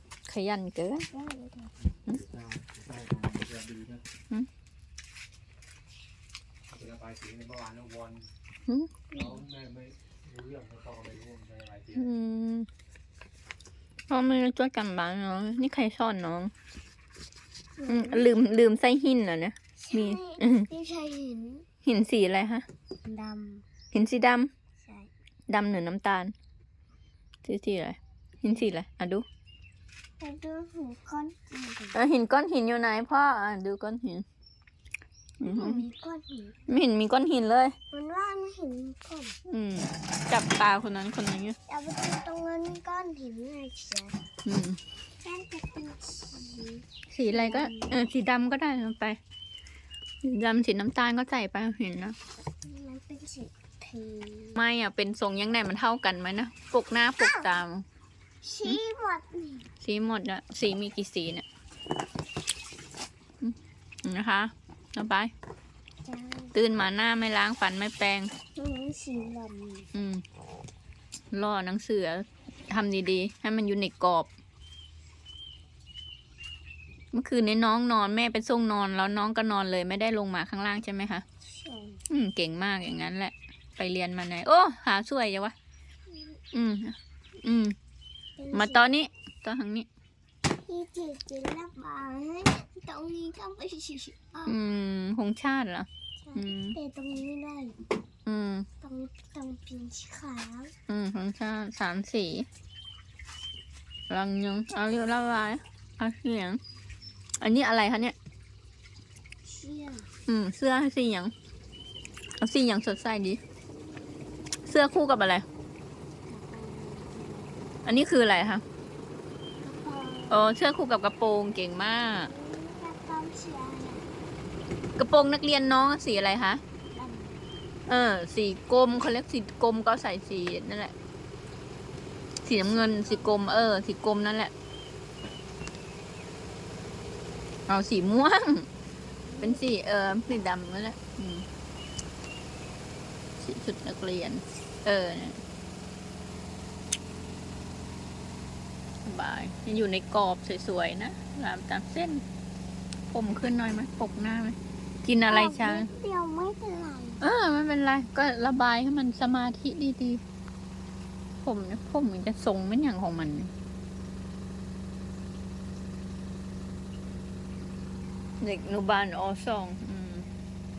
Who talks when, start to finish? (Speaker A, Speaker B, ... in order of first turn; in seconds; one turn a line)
Speaker A: 0.3-1.1
Speaker B: 1.1-1.7
Speaker C: 2.2-4.0
Speaker C: 6.7-8.3
Speaker B: 9.1-9.4
Speaker C: 9.3-12.0
Speaker A: 11.9-12.7
Speaker A: 14.1-16.5
Speaker B: 17.8-18.4
Speaker A: 17.9-20.7
Speaker B: 19.8-21.7
Speaker A: 21.9-22.6
Speaker B: 23.0-23.6
Speaker A: 23.9-24.5
Speaker B: 24.8-25.1
Speaker A: 25.5-26.3
Speaker A: 27.4-29.2
Speaker B: 30.2-32.0
Speaker A: 31.9-34.2
Speaker A: 35.4-35.8
Speaker B: 35.5-36.6
Speaker A: 36.7-37.8
Speaker B: 37.9-39.4
Speaker A: 39.5-41.6
Speaker B: 41.7-44.3
Speaker A: 44.5-44.8
Speaker B: 45.2-48.1
Speaker A: 47.1-49.2
Speaker A: 50.2-52.2
Speaker B: 52.6-54.6
Speaker A: 54.6-57.9
Speaker B: 57.1-57.5
Speaker B: 58.4-59.7
Speaker A: 59.8-61.5
Speaker A: 63.4-65.3
Speaker B: 66.0-66.5
Speaker A: 66.5-68.3
Speaker B: 68.5-69.9
Speaker A: 69.9-70.2
Speaker A: 71.3-74.3
Speaker A: 77.1-81.2
Speaker B: 81.5-82.0
Speaker A: 82.1-85.5
Speaker B: 86.1-86.4
Speaker A: 86.5-87.8
Speaker B: 88.4-88.9
Speaker A: 88.5-89.9
Speaker B: 90.5-94.6
Speaker A: 94.5-96.8
Speaker B: 96.2-97.8
Speaker A: 98.3-98.7
Speaker B: 98.8-100.7
Speaker A: 100.9-102.5
Speaker A: 104.1-106.6
Speaker A: 107.4-108.2
Speaker B: 109.4-110.1
Speaker A: 110.3-111.3
Speaker A: 112.4-113.4
Speaker B: 114.2-114.7
Speaker A: 114.7-115.5
Speaker B: 116.3-117.7
Speaker A: 117.8-118.6
Speaker B: 119.6-120.6
Speaker A: 120.3-122.3
Speaker B: 122.2-124.2
Speaker A: 125.0-126.6
Speaker B: 126.9-127.5
Speaker A: 127.9-130.9
Speaker A: 132.4-134.5
Speaker B: 132.5-133.6
Speaker A: 137.7-138.7
Speaker B: 139.2-139.7
Speaker A: 139.4-141.5
Speaker A: 143.4-145.4
Speaker A: 149.0-152.2
Speaker A: 153.1-155.9
Speaker B: 155.3-157.2
Speaker A: 157.2-160.2
Speaker A: 161.4-163.5
Speaker A: 168.4-170.3